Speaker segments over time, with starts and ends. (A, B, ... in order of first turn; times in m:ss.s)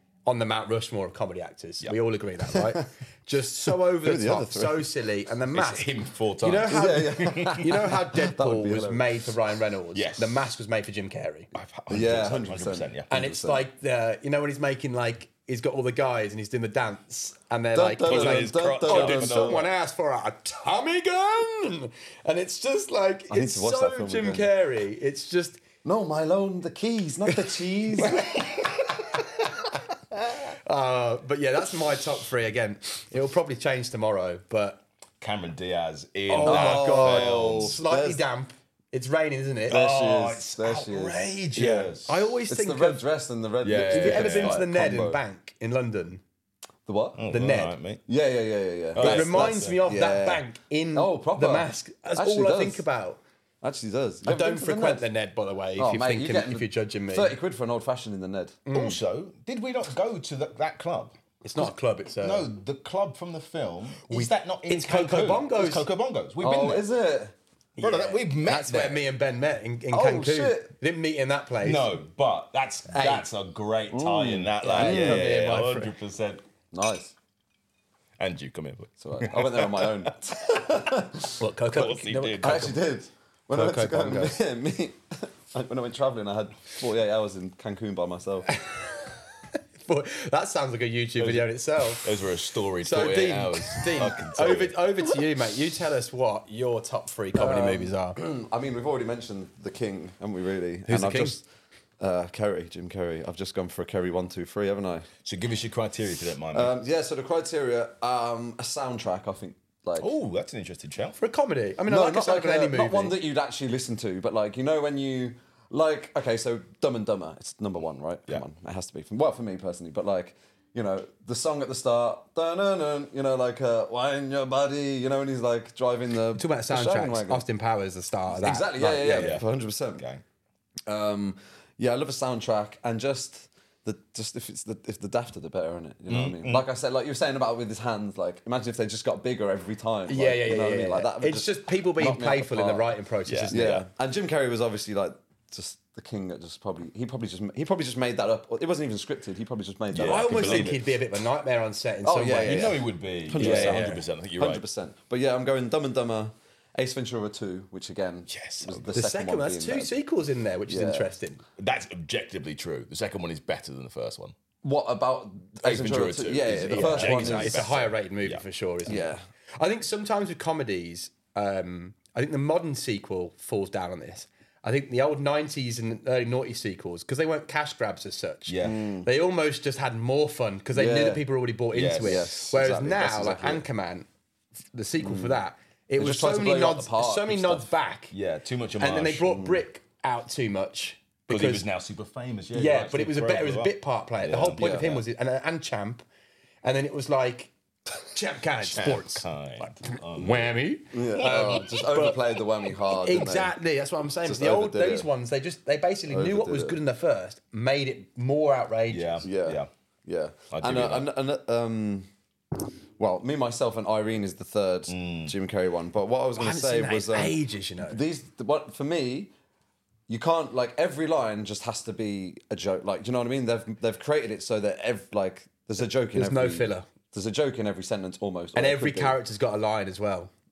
0:00.3-0:05.9 A
0:04.0-0:04.9 B
0:05.5-0:07.7 C
0:06.4-0:11.5 A
0:06.7-0:09.0 B
0:09.9-0:10.4 C
0:11.5-0:13.1 C
0:11.9-0:13.6 B
0:13.1-0:25.6 A
0:17.7-0:19.6 B
0:18.0-0:19.7 C
0:23.3-0:24.5 B
0:25.8-0:28.3 B
0:28.0-0:29.7 A
0:30.5-0:34.8 A
0:35.2-0:37.8 C
0:36.3-0:39.8 A
0:36.4-0:38.2 B
0:39.7-0:41.9 B
0:39.7-0:42.3 C
0:41.6-0:43.0 A
0:42.5-0:45.2 B
0:43.6-0:44.7 C
0:43.9-0:46.2 A
0:46.9-0:47.2 B
0:47.2-0:48.0 C
0:47.3-0:47.8 A
0:48.1-0:50.4 B
0:49.0-0:49.8 C
0:49.0-0:53.2 A
0:50.9-0:52.8 B
0:53.6-0:55.1 B
0:54.2-0:57.4 A
0:55.8-0:58.6 B
0:58.7-0:59.0 A
0:58.7-1:01.1 C
1:01.4-1:02.5 A
1:02.2-1:06.9 C
1:04.1-1:05.8 A
1:06.4-1:07.3 B
1:07.8-1:11.9 A
1:07.8-1:09.0 C
1:09.9-1:10.7 B
1:11.6-1:16.4 C
1:12.9-1:13.3 A
1:13.9-1:15.4 B
1:14.6-1:15.9 A
1:16.7-1:17.1 B
1:18.2-1:20.1 C
1:19.0-1:21.4 B
1:21.4-1:22.8 A
1:21.7-1:22.7 C
1:22.4-1:28.5 B
1:23.5-1:24.4 A
1:28.5-1:29.0 A
1:29.8-1:32.2 A
1:31.2-1:35.0 C
1:32.8-1:38.2 A
1:37.3-1:41.4 B
1:40.9-1:41.4 A
1:42.0-1:45.1 B
1:45.2-1:46.7 C
1:46.5-1:50.1 B
1:50.0-1:51.2 C
1:51.2-1:53.2 A
1:51.9-2:07.4 B
2:06.4-2:09.4 A
2:08.3-2:10.0 B
2:09.0-2:09.4 C
2:10.0-2:10.2 C
2:10.9-2:22.9 B
2:16.1-2:16.6 C
2:20.1-2:23.8 A
2:23.3-2:23.8 C
2:23.5-2:30.8 B
2:29.9-2:30.8 C
2:30.0-2:32.8 A
2:32.0-2:39.9 B
2:32.4-2:34.6 C
2:33.4-2:34.0 A
2:38.3-2:38.8 C
2:38.9-2:41.4 A
2:40.7-2:41.1 B
2:41.6-2:44.3 C
2:44.6-2:47.7 B
2:45.6-2:48.4 C
2:46.7-3:04.1 A
2:48.9-2:49.2 B
2:58.5-2:58.8 C
2:58.6-2:59.1 B
3:00.7-3:01.2 B
3:01.7-3:02.3 C
3:02.0-3:03.6 B
3:04.7-3:08.1 A
3:05.0-3:05.4 B
3:06.0-3:07.7 B
3:08.1-3:09.4 C
3:08.8-3:11.6 A
3:09.3-3:09.6 B
3:11.3-3:14.7 C
3:12.5-3:16.0 A
3:14.6-3:15.0 B
3:16.6-3:17.5 A
3:18.1-3:22.2 A
3:18.6-3:20.6 C
3:20.9-3:23.6 B
3:22.8-3:29.2 A
3:24.2-3:25.1 B
3:26.1-3:26.8 B
3:28.9-3:29.7 C
3:29.2-3:32.1 B
3:30.5-3:31.1 C
3:33.0-3:39.3 B
3:34.9-3:35.3 C
3:36.4-3:38.0 A
3:40.1-3:49.2 B
3:46.1-3:46.9 A
3:48.6-3:50.3 A